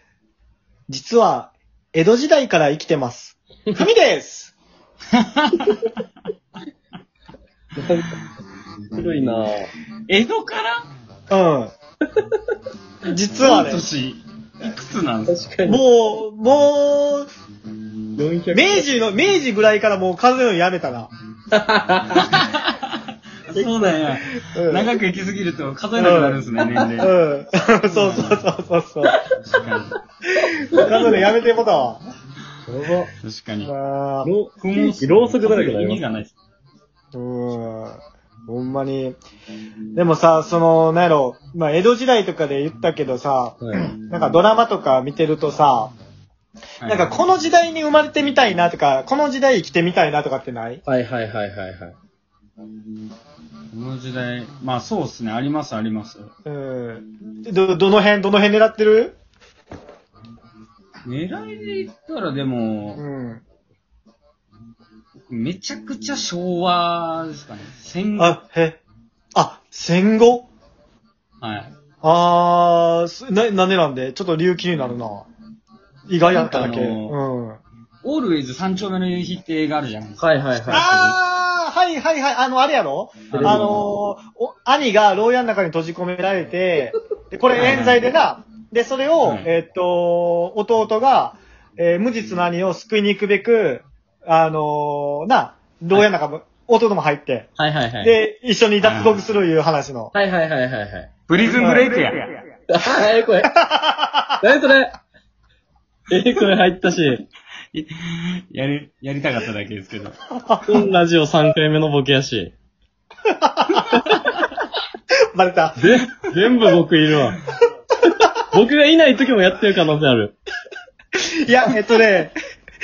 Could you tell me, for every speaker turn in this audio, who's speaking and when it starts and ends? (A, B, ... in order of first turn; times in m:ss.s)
0:00.9-0:04.6 A
0:05.2-0:06.0 B
0:07.8-0:08.2 C
0:08.9-0:09.7 C
0:10.1-0:10.8 B
0:11.3-0:11.7 A
0:13.1-0:13.8 A
0:13.4-0:15.5 B
0:15.3-0:15.8 C
0:15.6-0:17.3 A
0:18.2-0:18.9 C
0:18.5-0:21.1 A
0:21.5-0:22.3 C
0:22.1-0:22.9 B
0:23.5-0:27.1 B
0:23.6-0:23.9 A
0:24.5-0:24.9 A
0:26.0-0:26.5 A
0:27.0-0:29.2 A
0:27.8-0:28.4 B
0:29.4-0:30.0 B
0:30.4-0:32.0 A
0:30.8-0:31.1 C
0:32.7-0:33.1 C
0:33.2-0:33.7 B
0:33.6-0:34.3 A
0:34.2-0:36.0 C
0:34.6-0:36.4 B
0:37.1-0:39.2 A
0:39.9-0:45.9 A
0:43.6-0:43.9 C
0:46.8-0:47.2 B
0:46.8-0:50.8 A
0:50.8-0:52.0 C
0:53.7-0:56.3 B
0:56.5-0:59.2 A
1:01.0-1:03.0 B
1:03.0-1:03.4 A
1:05.2-1:08.4 B
1:08.2-1:08.8 A
1:09.3-1:10.5 A
1:11.4-1:11.8 B
1:12.0-1:15.3 A
1:16.1-1:17.6 A
1:16.3-1:17.2 B
1:18.0-1:20.3 B
1:20.2-1:21.2 C
1:20.7-1:37.5 A
1:23.3-1:23.8 B
1:23.3-1:23.8 C
1:27.6-1:27.9 C
1:27.6-1:28.0 B
1:29.2-1:29.5 B
1:37.6-1:38.2 C
1:38.0-1:40.1 A
1:38.8-1:39.2 B
1:40.1-1:41.1 C
1:41.3-1:42.4 B
1:41.4-1:42.2 A
1:42.7-1:43.5 C
1:43.5-1:44.4 A
1:44.4-1:45.0 C
1:46.1-1:47.2 C
1:47.7-1:50.1 B
1:50.4-1:50.9 A
1:50.7-1:52.5 C
1:53.4-1:54.2 A
1:55.3-1:55.8 A
1:55.8-1:57.4 C
1:58.2-2:00.4 C
2:01.2-2:02.4 A